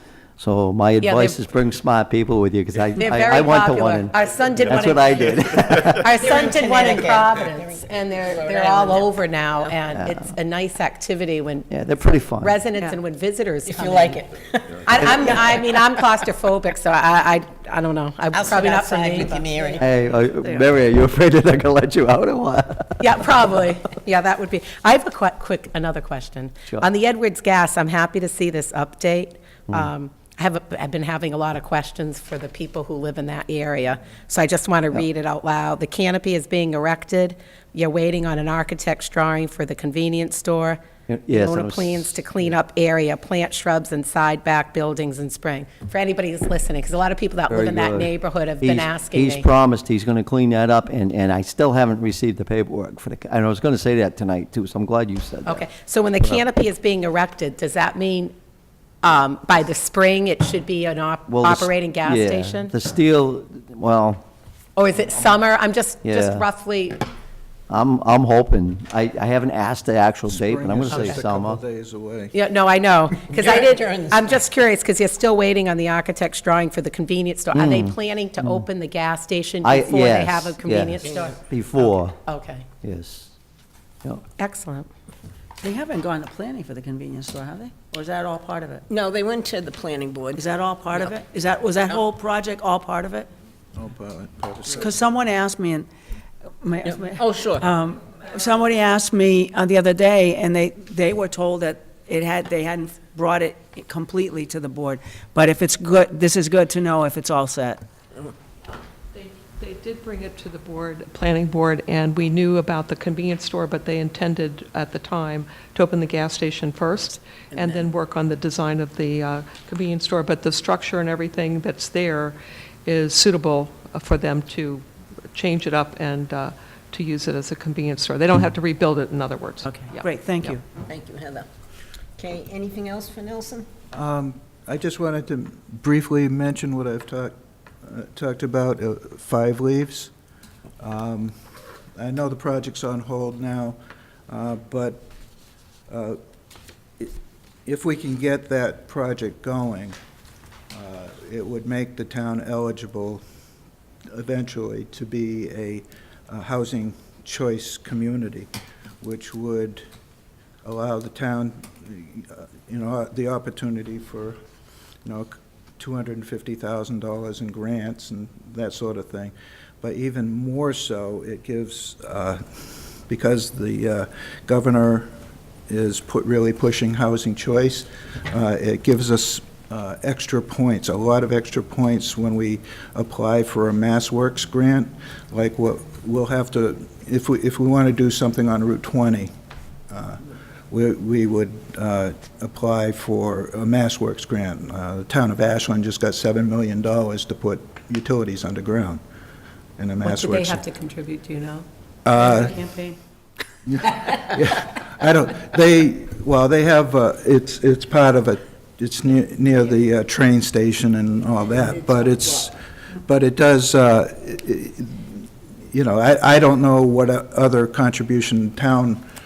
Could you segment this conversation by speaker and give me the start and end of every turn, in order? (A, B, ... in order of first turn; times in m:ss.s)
0:00.4-0:04.2 A
0:01.0-0:01.4 B
0:03.0-0:11.7 B
0:04.7-0:06.1 A
0:06.2-0:09.8 C
0:10.0-0:10.3 A
0:11.7-0:12.6 A
0:12.4-0:14.2 B
0:13.7-0:16.0 C
0:14.8-0:19.8 B
0:18.3-0:20.0 C
0:19.8-0:23.5 A
0:20.4-0:20.7 D
0:23.0-0:49.5 B
0:41.1-0:42.4 A
0:47.5-0:55.7 A
0:55.4-0:58.3 B
0:59.0-1:02.8 B
1:01.3-1:04.2 A
1:04.8-1:07.1 B
1:06.0-1:06.5 A
1:07.7-1:11.6 A
1:10.3-1:12.4 E
1:10.9-1:11.2 B
1:12.3-1:22.7 B
1:13.3-1:14.5 C
1:17.5-1:18.6 A
1:19.6-1:22.2 A
1:21.0-1:21.4 C
1:22.8-1:23.3 A
1:24.4-1:24.9 B
1:25.6-1:28.8 D
1:28.9-1:30.4 C
1:30.4-1:33.3 D
1:33.8-1:34.9 E
1:34.7-1:35.9 D
1:36.6-1:47.8 D
1:36.8-1:37.7 C
1:49.2-1:57.2 F
1:57.5-1:57.9 C
1:57.8-2:09.6 F
2:09.6-2:10.6 D
2:10.9-2:11.5 C
2:12.2-2:13.7 C
2:13.9-2:20.1 E
2:20.8-2:21.4 E
2:22.0-2:23.8 E
2:24.3-2:25.1 E
2:25.9-2:26.2 E
2:27.0-2:30.0 E
2:30.7-2:33.2 E
2:34.1-2:38.5 E
2:39.0-2:39.8 E
2:40.6-2:44.4 E
2:45.0-2:52.4 E
2:53.1-2:55.1 E
2:55.7-3:09.3 E
3:09.9-3:19.0 E
3:19.8-3:20.6 E
3:20.0-3:21.6 B
3:22.0-3:22.6 E
3:22.2-3:23.0 D
3:23.7-3:39.0 E